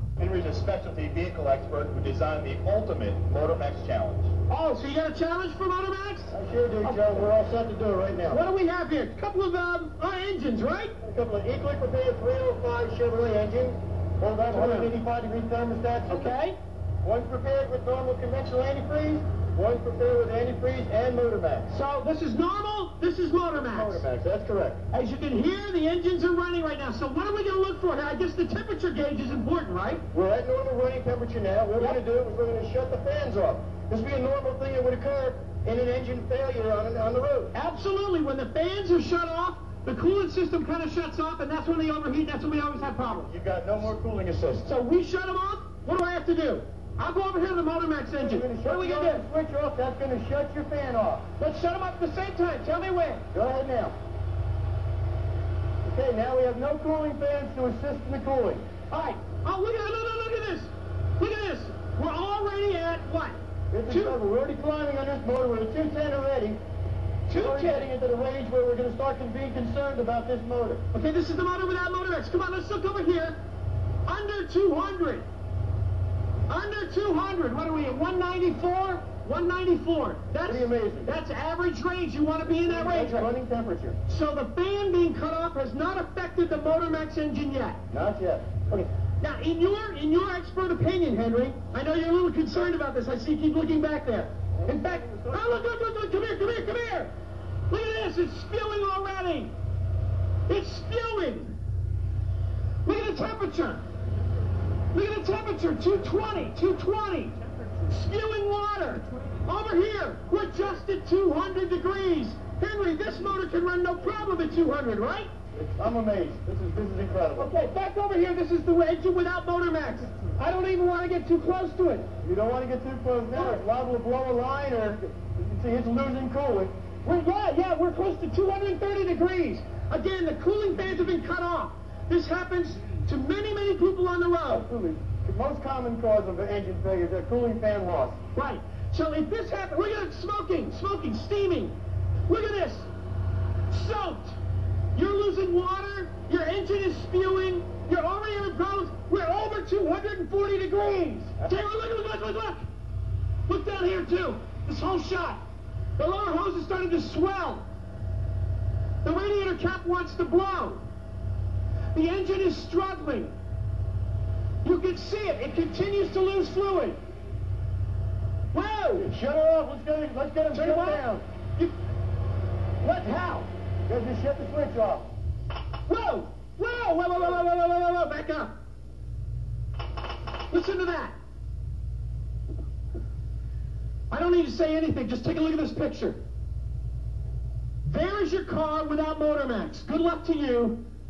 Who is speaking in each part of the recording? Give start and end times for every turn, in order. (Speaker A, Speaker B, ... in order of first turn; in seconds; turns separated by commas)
Speaker A: 0.1-4.3, Speaker B: 4.5-6.3, Speaker C: 6.3-8.4, Speaker B: 6.8-7.3, Speaker B: 8.3-10.9, Speaker C: 11.0-16.4, Speaker B: 14.5-14.9, Speaker B: 16.1-16.6, Speaker C: 17.0-21.7, Speaker B: 21.7-24.0, Speaker C: 23.5-24.8, Speaker B: 24.9-30.0, Speaker C: 30.1-37.5, Speaker B: 37.5-43.3, Speaker C: 43.1-44.7, Speaker B: 44.6-49.2, Speaker C: 48.1-51.2, Speaker B: 51.4-53.2, Speaker C: 53.3-53.9, Speaker C: 55.8-58.6, Speaker B: 58.9-63.4, Speaker C: 63.7-66.6, Speaker B: 63.9-64.2, Speaker B: 67.3-67.9, Speaker C: 67.3-70.8, Speaker B: 70.9-73.3, Speaker B: 74.0-75.2, Speaker B: 76.5-83.3, Speaker C: 80.4-81.1, Speaker C: 82.6-84.0, Speaker B: 84.1-87.8, Speaker C: 87.9-88.7, Speaker B: 88.7-97.1, Speaker C: 94.5-95.6, Speaker B: 97.7-99.5, Speaker B: 100.5-101.5, Speaker B: 102.8-103.8, Speaker B: 104.9-115.3, Speaker C: 115.5-117.5, Speaker B: 117.4-122.1, Speaker C: 122.2-126.7, Speaker B: 123.3-123.6, Speaker B: 127.0-134.7, Speaker C: 134.5-138.2, Speaker B: 138.3-141.7, Speaker B: 142.3-142.9, Speaker B: 143.7-144.4, Speaker B: 144.9-152.6, Speaker B: 153.5-155.4, Speaker B: 156.0-157.6, Speaker B: 159.0-160.8, Speaker B: 161.9-163.3, Speaker B: 164.6-167.0, Speaker B: 168.5-169.1, Speaker C: 169.0-171.2, Speaker B: 170.5-171.0, Speaker B: 172.8-173.2, Speaker C: 172.8-175.1, Speaker B: 175.9-178.5, Speaker B: 180.3-181.1, Speaker B: 184.1-186.2, Speaker B: 187.8-190.8